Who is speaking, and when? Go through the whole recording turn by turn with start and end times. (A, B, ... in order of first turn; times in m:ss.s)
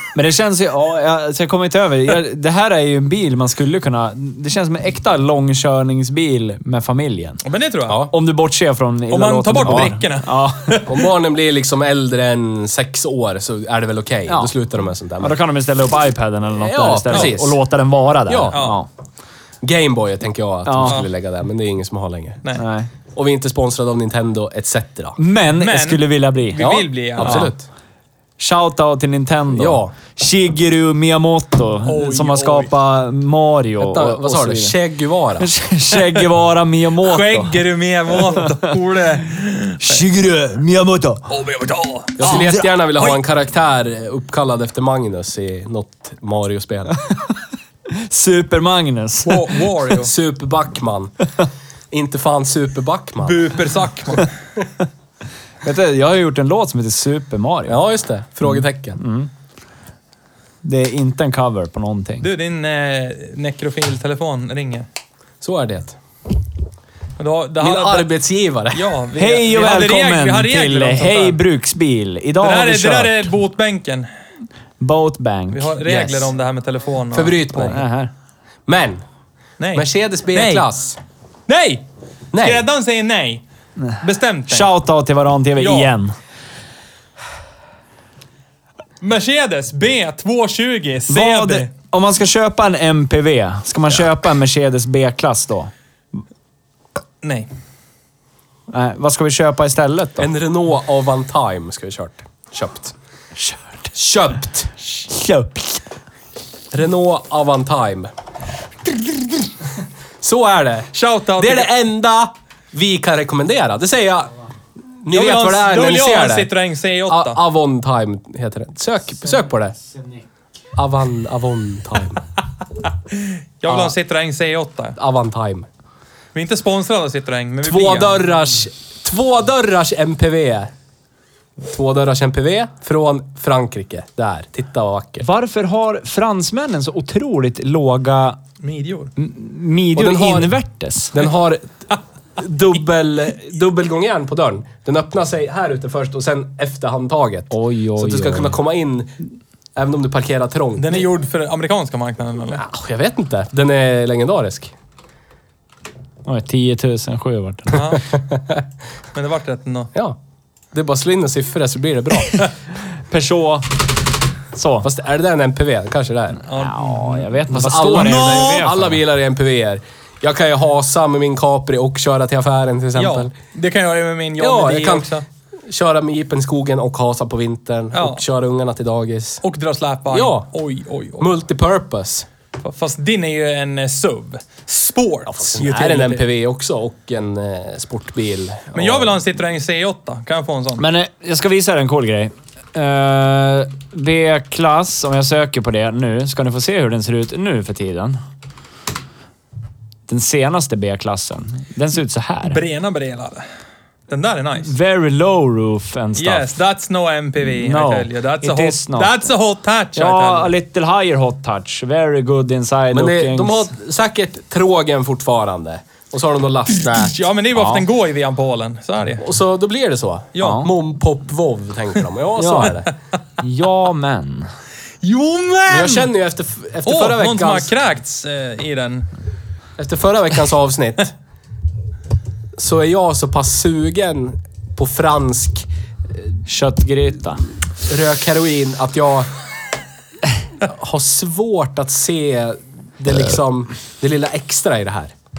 0:00.1-0:07.4 A
0:07.4-0:08.0 B
0:07.9-0:08.1 C
0:08.1-0:10.8 A
0:09.1-0:11.0 B
0:10.9-0:15.4 C
0:14.3-0:14.5 A
0:15.2-0:18.9 A
0:16.6-0:17.6 C
0:17.1-0:17.4 B
0:18.3-0:18.6 C
0:18.5-0:18.8 B
0:19.6-0:22.4 C
0:20.7-0:21.0 A
0:20.8-0:21.1 B
0:22.6-0:22.9 A
0:23.1-0:25.2 C
0:25.2-0:27.5 A
0:25.6-0:27.5 B
0:26.6-0:27.7 C
0:28.4-0:34.8 A
0:29.6-0:29.9 C
0:31.8-0:32.7 B
0:33.8-0:35.5 C
0:35.4-0:37.6 A
0:35.9-0:36.2 B
0:37.0-0:40.0 B
0:38.1-0:38.7 A
0:39.8-0:41.3 A
0:41.3-0:43.2 B
0:42.2-0:47.0 C
0:42.2-0:42.7 A
0:47.9-0:49.6 A
0:49.2-0:50.1 B
0:50.0-0:51.2 C
0:51.9-0:53.5 C
0:53.2-0:54.3 B
0:55.6-0:57.8 A
0:57.7-0:59.0 C
0:58.4-0:59.3 A
1:00.6-1:02.3 A
1:02.2-1:04.9 B
1:05.4-1:06.0 C
1:07.2-1:08.1 B
1:07.6-1:08.9 C
1:08.7-1:11.4 B
1:09.1-1:13.3 A
1:12.4-1:14.1 B
1:14.8-1:15.8 A
1:15.5-1:17.8 B
1:15.8-1:16.3 C
1:17.1-1:17.8 C
1:17.6-1:18.1 A
1:18.7-1:19.0 C
1:19.6-1:20.7 B
1:19.8-1:21.0 C
1:21.5-1:21.8 B
1:22.3-1:22.6 C
1:22.4-1:23.4 B
1:23.8-1:26.1 A
1:24.0-1:24.7 B
1:25.6-1:25.9 B
1:29.0-1:31.7 B
1:31.1-1:35.7 A
1:37.2-1:37.5 B
1:38.7-1:40.3 A
1:40.2-1:42.9 C
1:43.9-1:44.7 C
1:45.1-1:45.8 A
1:46.7-1:48.1 C
1:50.2-1:54.4 C
1:50.9-1:51.7 B
1:55.0-1:56.5 C
1:55.1-1:57.4 B
1:57.1-1:59.8 C
2:00.8-2:02.2 C
2:03.1-2:05.0 B
2:03.7-2:03.9 C
2:05.0-2:05.7 C
2:06.3-2:08.2 B
2:07.6-2:10.7 C
2:11.6-2:15.3 C
2:15.2-2:18.4 A
2:18.6-2:19.1 B
2:19.2-2:21.2 A
2:20.0-2:20.5 C
2:21.1-2:21.8 C
2:22.4-2:29.1 C
2:27.5-2:28.6 A
2:29.8-2:31.1 C
2:30.8-2:32.6 B
2:32.5-2:34.7 C
2:36.2-2:37.9 A
2:37.7-2:38.1 B
2:38.0-2:38.6 C
2:39.1-2:39.9 B
2:40.7-2:42.5 C
2:43.1-2:43.8 A
2:44.5-2:44.9 A
2:44.8-2:46.4 C
2:46.5-2:47.3 B
2:46.5-2:49.0 A
2:47.5-2:53.3 C
2:47.9-2:48.7 B
2:53.0-2:55.2 B
2:54.4-2:59.4 C
2:57.9-2:58.2 B
2:59.4-3:01.3 B
3:00.1-3:00.5 C
3:01.2-3:02.3 C
3:02.6-3:06.2 B
3:05.3-3:09.1 C
3:08.7-3:10.8 B
3:10.8-3:18.2 A
3:20.1-3:22.6 A
3:22.5-3:23.4 B
3:24.1-3:24.7 B
3:24.6-3:26.6 A
3:26.2-3:30.5 B
3:27.4-3:29.2 A
3:30.0-3:33.7 A
3:32.9-3:37.2 C
3:36.7-3:39.2 B
3:37.6-3:37.8 A
3:39.2-3:42.9 C
3:40.4-3:40.7 B
3:40.4-3:40.7 A
3:42.4-3:42.8 A
3:43.4-3:44.5 A
3:45.0-3:46.1 B
3:45.7-3:47.7 C
3:46.9-3:49.1 B
3:49.8-3:51.1 C
3:52.6-3:55.7 C
3:56.5-3:57.4 A
3:57.9-3:59.3 C
4:00.6-4:05.1 C